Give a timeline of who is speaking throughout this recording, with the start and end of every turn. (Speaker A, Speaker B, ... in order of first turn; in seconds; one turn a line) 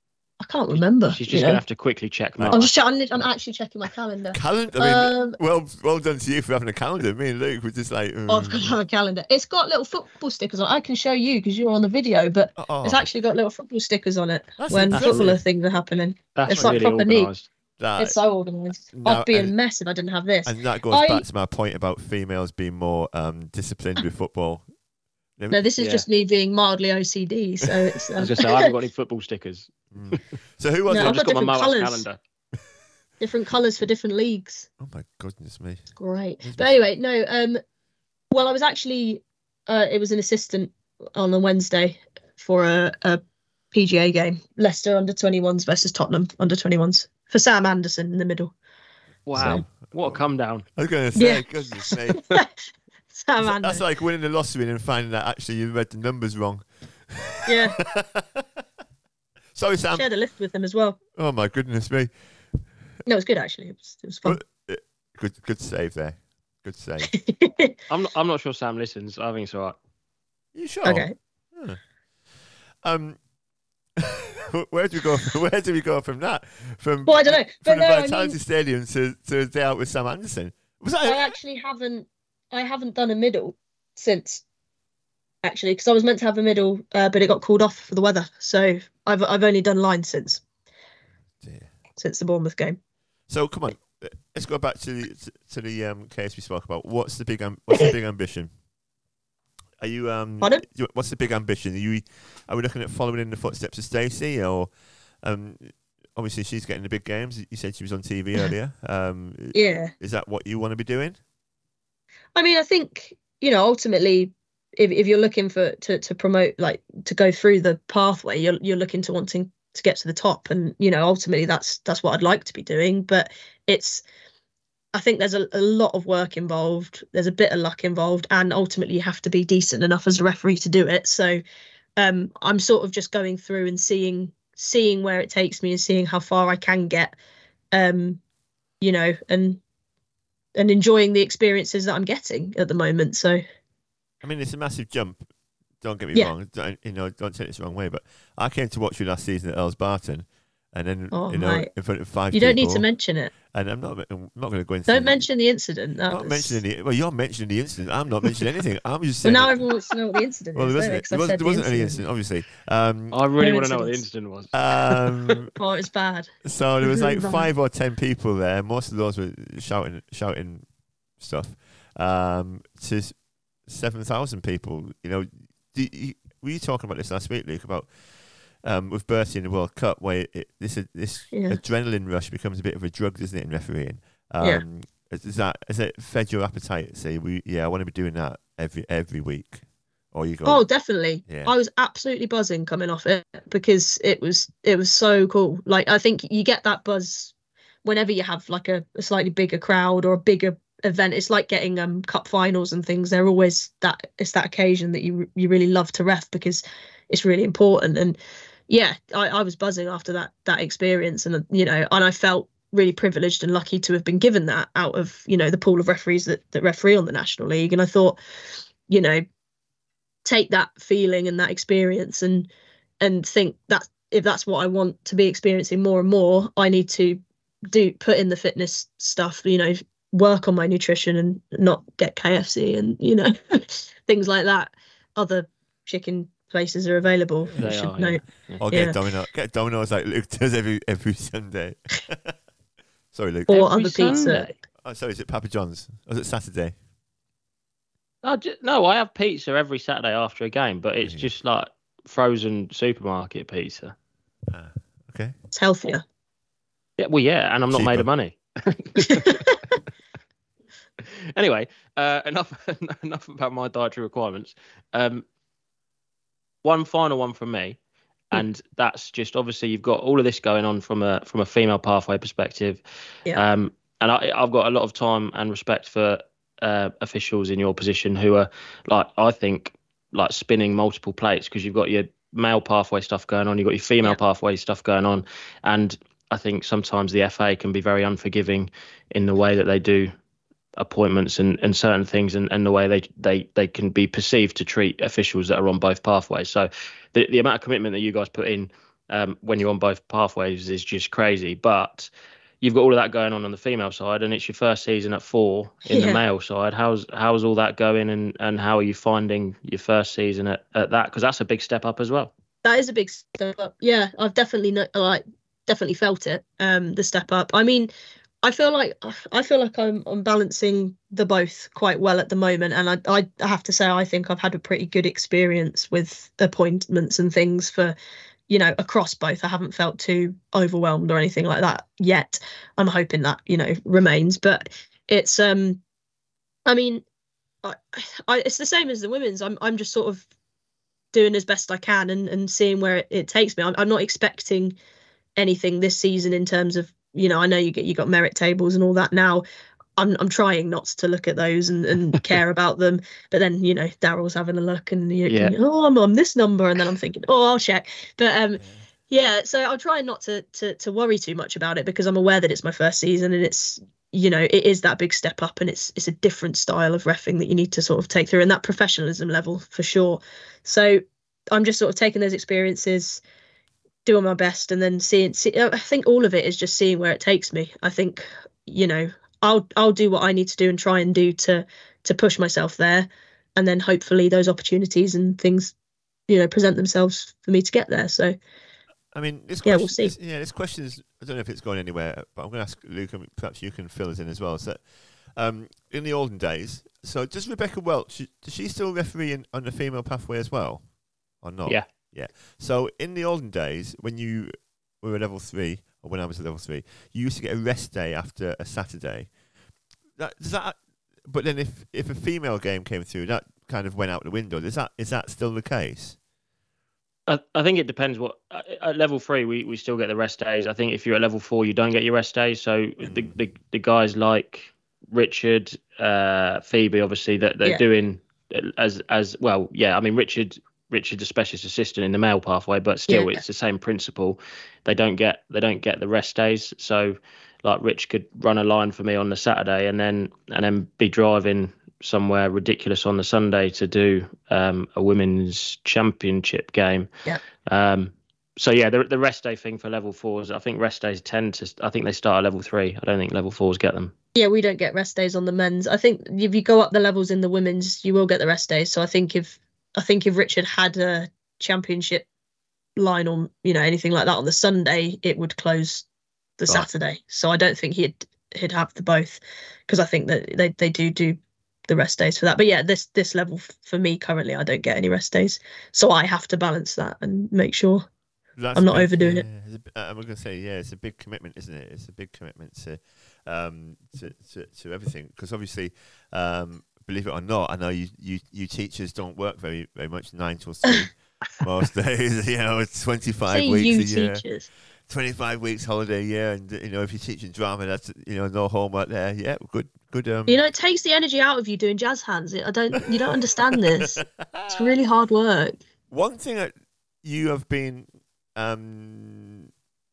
Speaker A: 0.4-1.6
Speaker B: 1.1-2.7
Speaker C: 2.4-2.6
Speaker A: 2.5-5.4
Speaker C: 4.3-8.8
Speaker A: 8.3-17.3
Speaker C: 12.6-13.1
Speaker C: 14.6-15.4
Speaker B: 14.9-15.3
Speaker B: 16.4-17.5
Speaker C: 16.5-16.8
Speaker C: 17.8-18.2
Speaker A: 18.0-21.2
Speaker C: 18.9-19.5
Speaker C: 20.4-24.6
Speaker C: 25.4-25.7
Speaker A: 25.5-28.7
Speaker B: 25.8-26.1
Speaker C: 27.7-28.0
Speaker B: 28.2-30.2
Speaker C: 29.9-31.2
Speaker A: 30.9-32.1
Speaker B: 30.9-32.2
Speaker A: 33.2-34.7
Speaker C: 34.8-35.9
Speaker A: 36.0-37.6
Speaker C: 36.4-36.8
Speaker A: 38.3-43.2
Speaker A: 43.7-48.5
Speaker B: 49.3-50.7
Speaker C: 49.4-50.2
Speaker C: 50.8-52.2
Speaker A: 51.2-52.5
Speaker A: 53.1-53.8
Speaker C: 53.4-58.5
Speaker A: 57.5-57.8
Speaker C: 59.5-60.1
Speaker A: 59.9-61.0
Speaker C: 61.1-62.1
Speaker A: 63.1-64.4
Speaker C: 64.2-67.1
Speaker A: 67.1-67.8
Speaker B: 67.9-69.8
Speaker C: 70.5-71.8
Speaker A: 70.8-71.1
Speaker C: 72.8-73.2
Speaker C: 74.0-81.3
Speaker A: 77.1-78.4
Speaker A: 81.0-84.4
Speaker A: 85.4-90.4
Speaker C: 91.4-91.7
Speaker A: 92.0-92.8
Speaker C: 93.3-98.5
Speaker C: 99.8-104.7
Speaker C: 105.2-111.2
Speaker A: 109.5-109.9
Speaker A: 112.3-124.0
Speaker A: 124.9-131.4
Speaker A: 132.0-137.2
Speaker A: 137.7-138.2
Speaker A: 138.8-139.6
Speaker A: 140.6-143.4
Speaker C: 144.2-145.2
Speaker C: 145.8-152.8
Speaker A: 151.1-151.7
Speaker A: 152.3-153.3
Speaker C: 153.5-155.3
Speaker A: 154.9-156.6
Speaker C: 156.1-159.7
Speaker A: 159.2-162.0
Speaker C: 160.6-163.2
Speaker B: 163.1-165.4
Speaker A: 163.4-164.0
Speaker C: 164.5-165.5
Speaker A: 165.6-167.5
Speaker C: 166.4-170.7
Speaker C: 171.2-177.9
Speaker C: 178.6-190.6
Speaker A: 181.3-181.6
Speaker A: 190.4-197.3
Speaker C: 191.3-191.5
Speaker A: 197.8-208.2
Speaker A: 208.7-218.2
Speaker A: 218.9-219.2
Speaker A: 220.2-222.5
Speaker A: 223.0-239.0
Speaker B: 237.6-238.7
Speaker C: 238.6-242.4
Speaker C: 243.1-244.3
Speaker A: 243.5-244.5
Speaker B: 243.5-244.5
Speaker C: 244.8-246.8
Speaker B: 248.2-253.9
Speaker C: 251.0-251.3
Speaker C: 254.5-255.4
Speaker A: 255.5-256.0
Speaker B: 257.0-259.5
Speaker C: 257.7-258.1
Speaker A: 259.1-259.4
Speaker B: 261.0-265.3
Speaker B: 266.6-267.8
Speaker B: 268.3-272.8
Speaker B: 273.3-290.1
Speaker B: 290.8-302.1
Speaker B: 302.6-312.3
Speaker A: 305.9-306.2
Speaker A: 312.6-317.9
Speaker A: 318.4-328.0
Speaker A: 328.5-335.8
Speaker A: 336.7-337.0
Speaker A: 337.6-340.2
Speaker A: 341.1-344.8
Speaker A: 345.4-349.4
Speaker A: 350.0-373.2
Speaker B: 355.3-355.5
Speaker C: 358.6-358.9
Speaker A: 374.1-385.8
Speaker A: 386.3-388.4
Speaker C: 389.1-394.8
Speaker A: 389.6-390.1
Speaker C: 395.4-400.8
Speaker C: 401.4-409.3
Speaker C: 410.2-416.2
Speaker B: 417.3-447.1
Speaker C: 423.0-423.4
Speaker A: 433.1-433.4
Speaker B: 447.7-454.1
Speaker A: 454.4-462.3
Speaker A: 463.0-466.1
Speaker A: 466.6-478.1
Speaker C: 478.6-494.4
Speaker A: 478.8-479.4
Speaker A: 493.5-494.7
Speaker C: 495.1-500.6
Speaker A: 500.5-505.8
Speaker C: 503.2-505.0
Speaker C: 506.1-509.7